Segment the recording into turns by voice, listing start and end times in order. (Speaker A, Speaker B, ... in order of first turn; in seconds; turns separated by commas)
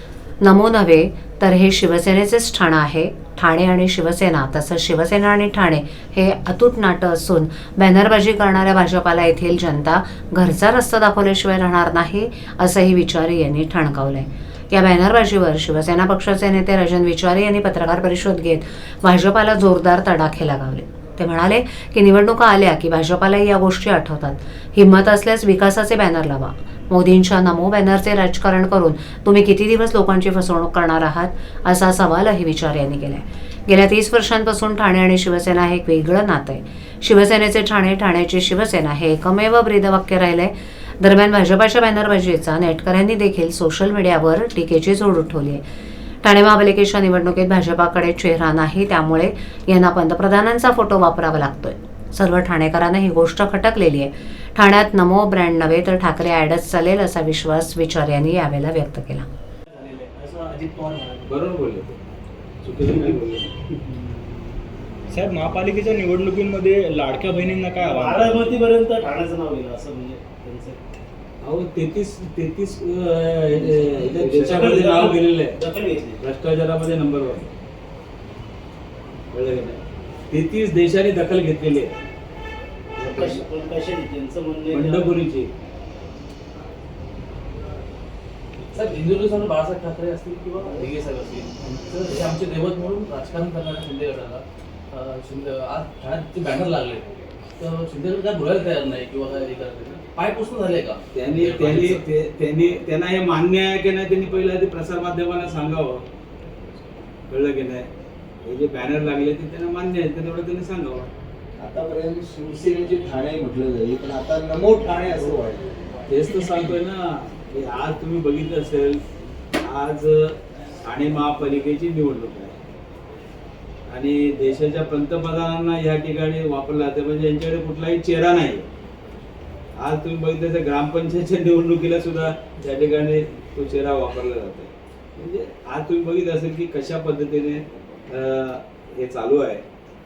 Speaker A: 0.4-45.6, Speaker A: 46.2-59.3, Speaker B: 61.3-62.0, Speaker B: 62.6-63.6, Speaker C: 65.1-68.7, Speaker D: 67.8-70.8, Speaker B: 71.4-75.6, Speaker D: 73.9-76.2, Speaker B: 76.2-77.5, Speaker B: 79.3-82.0, Speaker D: 83.0-85.1, Speaker B: 83.0-83.4, Speaker B: 84.7-85.5, Speaker E: 88.7-102.0, Speaker B: 101.1-106.0, Speaker B: 107.3-107.9, Speaker B: 108.4-111.1, Speaker F: 111.6-115.8, Speaker B: 116.1-119.0, Speaker B: 119.6-122.6, Speaker B: 123.9-128.7, Speaker B: 129.8-139.6